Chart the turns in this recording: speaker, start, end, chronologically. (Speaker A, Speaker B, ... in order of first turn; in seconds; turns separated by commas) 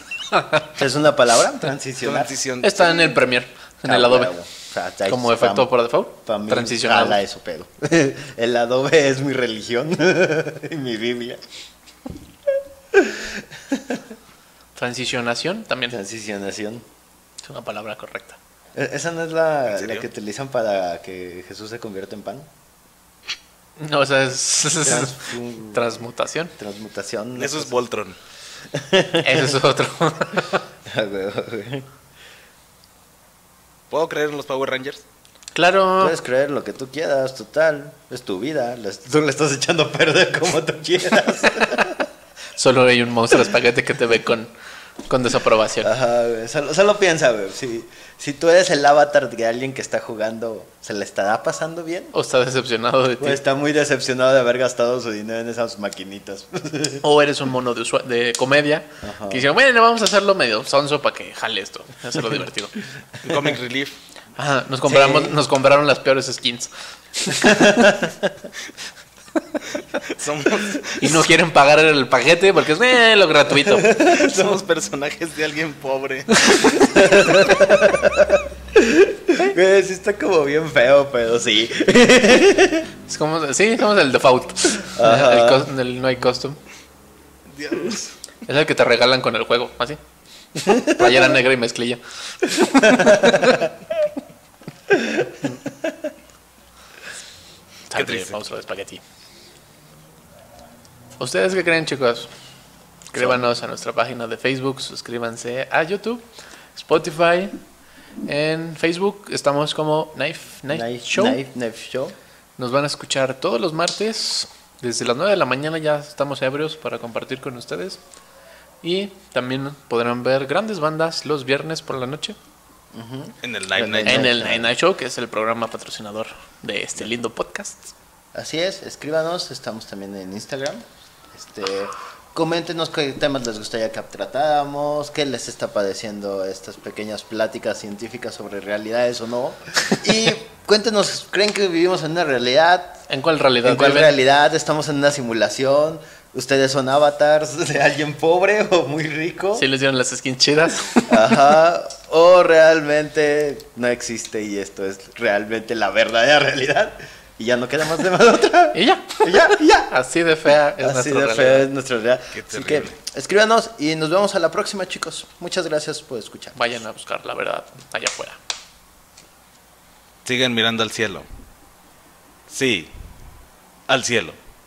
Speaker A: 0.6-2.4, Speaker B: 2.0-3.0, Speaker C: 2.6-4.3, Speaker A: 3.8-5.7, Speaker C: 5.1-7.2, Speaker A: 6.2-11.4, Speaker A: 12.9-14.0, Speaker C: 14.8-16.0, Speaker A: 15.9-16.8, Speaker C: 17.4-18.4, Speaker A: 18.7-22.5, Speaker B: 19.7-20.0, Speaker C: 23.8-26.5, Speaker A: 24.8-25.9, Speaker A: 26.6-27.8, Speaker B: 27.4-28.2, Speaker A: 28.7-29.6, Speaker C: 29.2-30.6, Speaker A: 30.9-31.9, Speaker B: 33.9-35.0, Speaker C: 35.5-36.2, Speaker A: 36.0-42.1, Speaker C: 42.6-44.5, Speaker C: 45.1-45.9, Speaker A: 45.8-52.1, Speaker C: 52.1-53.4, Speaker A: 53.2-57.0, Speaker C: 57.0-62.7, Speaker A: 59.0-59.4, Speaker B: 63.2-64.0, Speaker C: 64.4-68.0, Speaker A: 64.9-65.4, Speaker A: 67.4-68.3, Speaker B: 70.0-71.2, Speaker C: 71.0-73.9, Speaker A: 73.7-74.6, Speaker B: 73.9-76.9, Speaker A: 76.8-82.9, Speaker C: 83.1-86.6, Speaker A: 84.8-85.7, Speaker B: 87.5-88.1, Speaker C: 88.5-90.0, Speaker C: 90.6-93.7, Speaker A: 90.7-91.3, Speaker A: 92.9-93.5, Speaker A: 94.9-95.9, Speaker C: 97.9-99.0, Speaker B: 97.9-98.3, Speaker C: 101.2-102.3, Speaker C: 103.1-106.2, Speaker C: 106.7-107.5, Speaker C: 108.2-111.4, Speaker A: 110.7-112.1, Speaker C: 112.6-118.0, Speaker C: 118.8-122.4, Speaker A: 122.9-124.7, Speaker B: 123.4-124.3, Speaker C: 124.0-127.9, Speaker A: 128.3-143.0, Speaker C: 143.1-144.2, Speaker A: 143.6-149.6, Speaker C: 149.5-151.5, Speaker A: 151.1-159.9, Speaker C: 158.7-161.7, Speaker A: 160.8-166.7, Speaker B: 162.3-162.9, Speaker C: 166.5-168.4, Speaker B: 170.2-171.2, Speaker B: 172.5-172.9, Speaker B: 173.9-174.4